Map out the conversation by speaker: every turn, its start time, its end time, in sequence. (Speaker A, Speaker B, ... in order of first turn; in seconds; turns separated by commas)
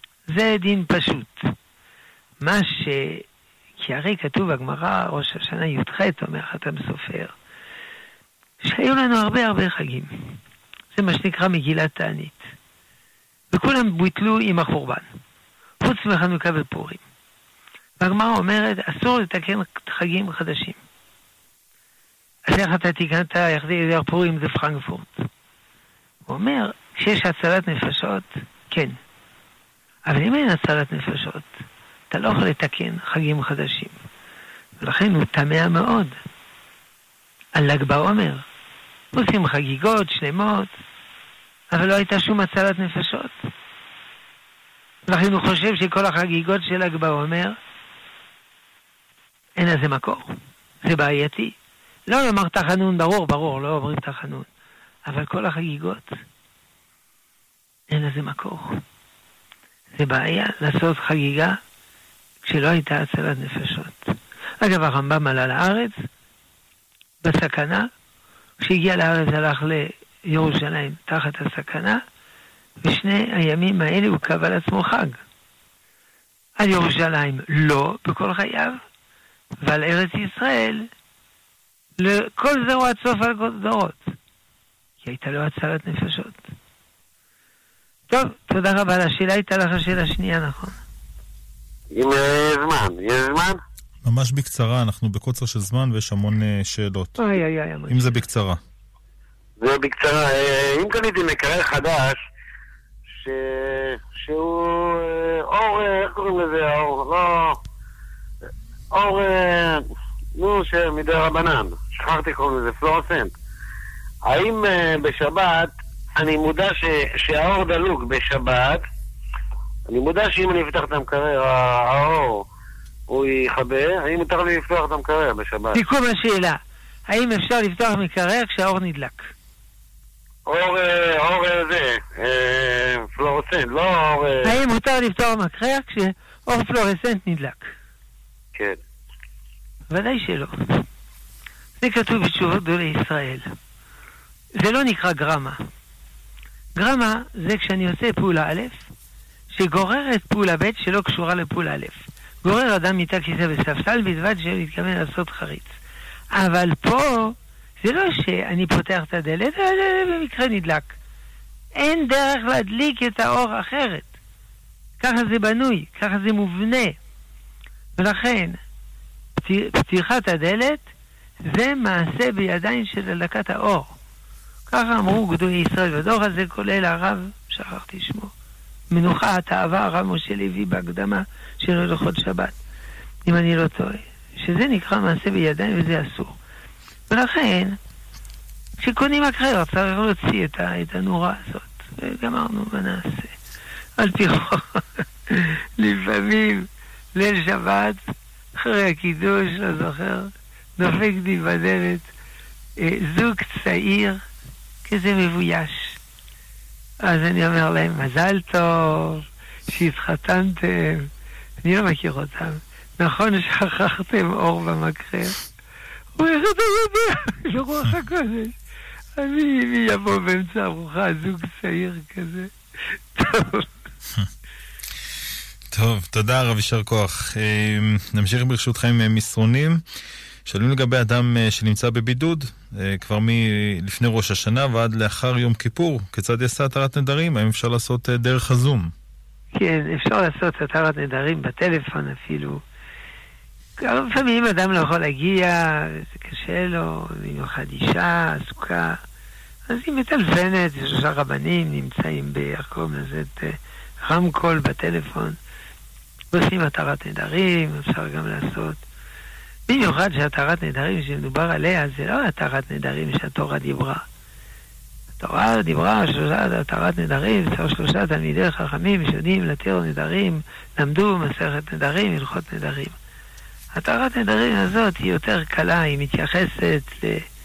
Speaker A: 0.3-1.5, Speaker A: 2.4-3.2, Speaker A: 3.8-7.3, Speaker A: 8.6-10.3, Speaker A: 10.9-12.4, Speaker A: 13.5-15.1, Speaker A: 15.8-17.0, Speaker A: 18.0-20.8, Speaker A: 22.5-25.3, Speaker A: 26.3-28.9, Speaker A: 30.1-31.5, Speaker A: 32.1-34.0, Speaker A: 34.8-36.1, Speaker A: 37.5-38.4, Speaker A: 39.1-40.7, Speaker A: 41.7-43.3, Speaker A: 45.1-47.6, Speaker A: 49.6-51.5, Speaker A: 52.1-54.5, Speaker A: 55.1-56.2, Speaker A: 57.9-58.8, Speaker A: 60.0-61.6, Speaker A: 62.4-65.9, Speaker A: 67.2-67.9, Speaker A: 68.6-72.0, Speaker A: 72.8-75.2, Speaker A: 76.6-78.8, Speaker A: 79.6-80.9, Speaker A: 82.0-84.1, Speaker A: 85.0-86.5, Speaker A: 88.1-90.8, Speaker B: 91.9-93.6, Speaker C: 94.0-97.2, Speaker A: 97.2-98.2, Speaker C: 97.9-98.6, Speaker B: 99.6-102.2, Speaker B: 103.1-107.6, Speaker B: 108.9-113.3, Speaker B: 114.2-118.8, Speaker B: 119.9-122.5, Speaker B: 123.1-125.8, Speaker A: 125.7-129.3, Speaker B: 130.5-134.5, Speaker A: 134.4-137.7, Speaker B: 138.6-138.8, Speaker A: 139.9-140.8, Speaker A: 141.8-143.5, Speaker A: 144.6-145.6, Speaker A: 146.8-148.8, Speaker A: 149.5-155.7, Speaker A: 156.3-160.9, Speaker A: 161.8-164.1, Speaker A: 165.0-167.0, Speaker A: 168.0-168.6, Speaker A: 169.4-170.8, Speaker A: 171.4-173.9, Speaker A: 174.7-178.3, Speaker A: 178.9-182.5, Speaker A: 183.2-186.3, Speaker A: 187.1-187.8, Speaker A: 188.8-193.3, Speaker A: 194.0-198.0, Speaker A: 198.6-202.1, Speaker A: 202.8-204.2, Speaker A: 204.8-206.0, Speaker A: 207.0-211.1, Speaker A: 211.6-215.4, Speaker A: 216.2-218.5, Speaker A: 219.2-222.5, Speaker A: 223.2-223.7, Speaker C: 225.7-229.8, Speaker C: 230.4-238.9, Speaker A: 239.5-242.6, Speaker A: 243.8-249.0, Speaker A: 249.7-255.4, Speaker A: 256.3-258.8, Speaker A: 259.7-264.0, Speaker A: 265.2-272.9, Speaker A: 273.7-277.2